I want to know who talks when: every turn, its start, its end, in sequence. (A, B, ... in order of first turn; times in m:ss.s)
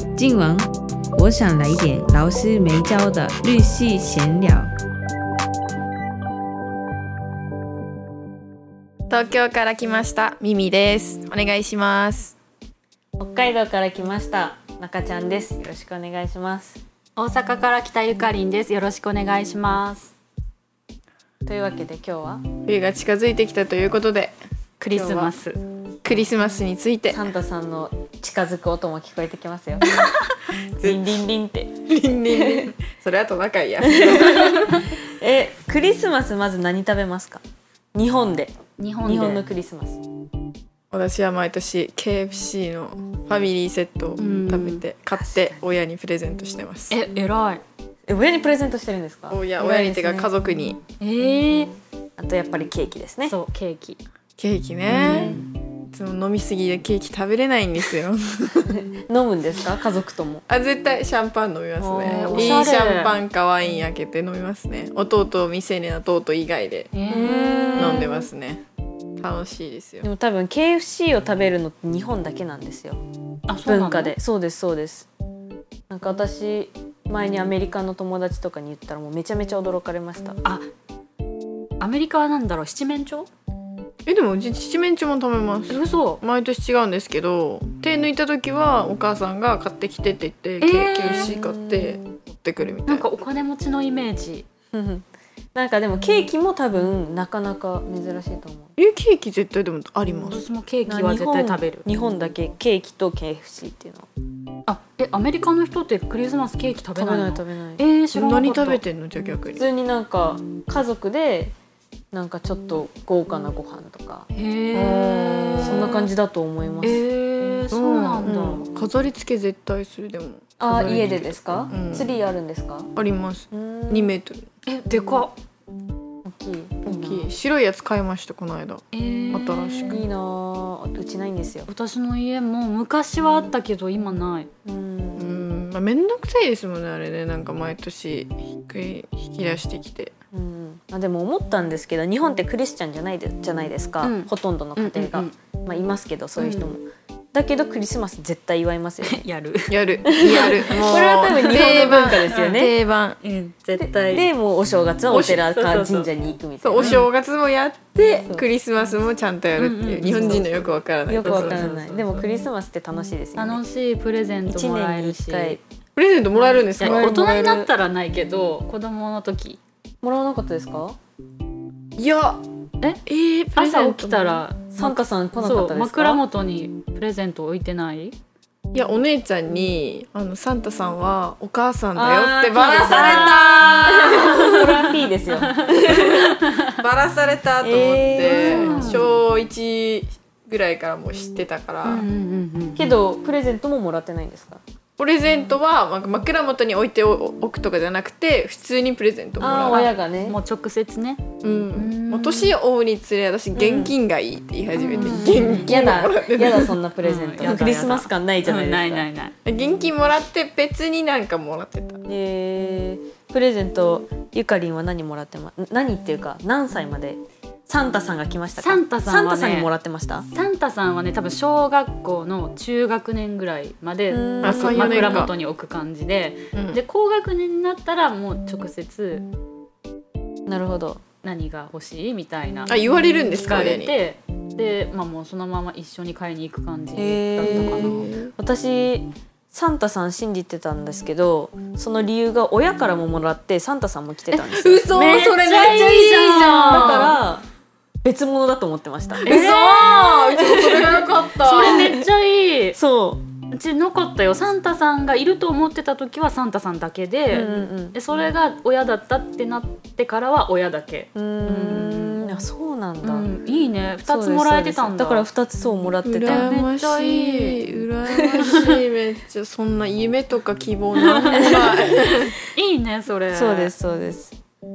0:00.1-0:04.7 A
0:09.1-0:12.4 B
0:13.2-0:16.8 A
0:17.2-0:20.1 C
0:21.4-0:22.4 A
0:22.6-0:24.3 B
0:24.8-0:25.6 C
0:24.9-0:25.3 B
0:26.0-0:27.2 B
0:27.1-0:29.9 A
0:30.8-0:31.0 B
0:30.8-0:31.8 A
0:31.8-0:34.8 B
0:32.4-0:32.7 A
0:33.9-0:37.4 A
0:37.9-0:40.0 A
0:38.8-0:39.4 C
0:40.9-0:47.0 B
0:44.2-0:44.8 C
0:45.1-0:45.6 A
0:46.9-0:47.6 C
0:48.1-0:50.3 A
0:49.3-0:50.8 B
0:51.0-0:51.7 C
0:51.5-0:53.4 A
0:53.3-0:54.0 C
0:54.4-0:58.8 B
0:54.9-0:55.4 A
0:54.9-0:55.4 C
0:58.6-1:00.4 A
1:00.5-1:06.9 B
1:01.8-1:03.2 C
1:02.0-1:02.6 A
1:06.9-1:08.2 C
1:07.1-1:08.2 A
1:07.8-1:08.6 B
1:09.2-1:10.1 B
1:10.0-1:13.0 A
1:13.5-1:14.1 C
1:13.6-1:15.1 A
1:15.9-1:20.4 A
1:21.8-1:23.3 C
1:24.0-1:33.1 B
1:25.7-1:26.2 C
1:30.6-1:31.4 C
1:31.0-1:32.0 A
1:32.9-1:34.4 C
1:34.7-1:38.7 A
1:38.8-1:40.4 B
1:40.3-1:41.8 C
1:40.9-1:44.1 A
1:44.7-1:48.8 C
1:46.9-1:47.8 A
1:48.1-1:49.6 B
1:49.6-1:51.5 A
1:52.1-1:54.3 A
1:54.3-1:56.1 C
1:54.7-1:56.1 B
1:55.6-1:57.0 A
1:56.8-1:58.7 C
1:57.7-2:02.1 B
2:00.6-2:02.9 A
2:02.9-2:04.5 B
2:03.5-2:04.1 A
2:04.6-2:05.4 C
2:06.2-2:07.3 A
2:06.8-2:10.0 B
2:08.9-2:10.0 C
2:09.8-2:11.7 A
2:11.7-2:14.5 C
2:14.6-2:15.3 A
2:15.2-2:20.1 B
2:20.3-2:29.2 A
2:24.0-2:25.3 C
2:29.0-2:32.7 C
2:29.7-2:33.2 B
2:30.0-2:32.7 A
2:33.2-2:34.3 C
2:33.8-2:37.0 A
2:35.1-2:35.4 B
2:35.3-2:36.1 C
2:36.6-2:41.7 B
2:36.8-2:37.1 C
2:39.6-2:40.5 C
2:40.0-2:43.6 A
2:41.2-2:42.2 C
2:43.4-2:45.6 C
2:44.5-2:45.6 A
2:46.0-2:47.2 B
2:46.8-2:49.6 C
2:46.8-2:47.7 A
2:50.0-2:51.0 A
2:52.0-2:52.4 B
2:53.0-2:54.4 B
2:53.6-2:58.2 C
2:54.7-2:56.2 A
2:58.7-3:04.8 B
3:01.9-3:06.2 A
3:02.6-3:06.7 C
3:05.8-3:12.1 B
3:07.6-3:09.1 A
3:08.2-3:09.1 C
3:11.8-3:13.0 C
3:12.7-3:14.6 A
3:15.0-3:19.8 B
3:19.4-3:20.4 A
3:19.5-3:22.5 C
3:21.4-3:26.8 B
3:23.5-3:23.9 A
3:24.8-3:25.7 C
3:24.9-3:29.0 A
3:27.0-3:29.3 C
3:29.4-3:32.0 B
3:32.0-3:40.3 A
3:38.6-3:39.7 C
3:40.3-3:49.3 C
3:44.1-3:45.2 A
3:44.4-3:45.3 B
3:46.5-3:46.8 B
3:50.5-3:51.0 A
3:51.2-3:52.7 C
3:52.7-3:54.0 B
3:53.3-3:58.1 C
3:57.0-4:04.9 A
3:57.4-3:58.3 B
4:04.3-4:07.2 B
4:04.9-4:07.2 C
4:06.6-4:07.4 A
4:08.0-4:09.4 A
4:09.2-4:12.0 B
4:09.2-4:10.4 C
4:10.4-4:11.0 A
4:11.4-4:12.8 C
4:11.6-4:12.0 A
4:12.7-4:13.3 A
4:13.5-4:22.4 C
4:17.3-4:18.0 A
4:21.1-4:23.3 A
4:23.0-4:25.3 C
4:24.0-4:26.5 A
4:26.0-4:32.3 B
4:26.2-4:27.7 C
4:28.3-4:28.7 C
4:31.0-4:33.7 C
4:31.3-4:31.6 A
4:33.3-4:34.4 A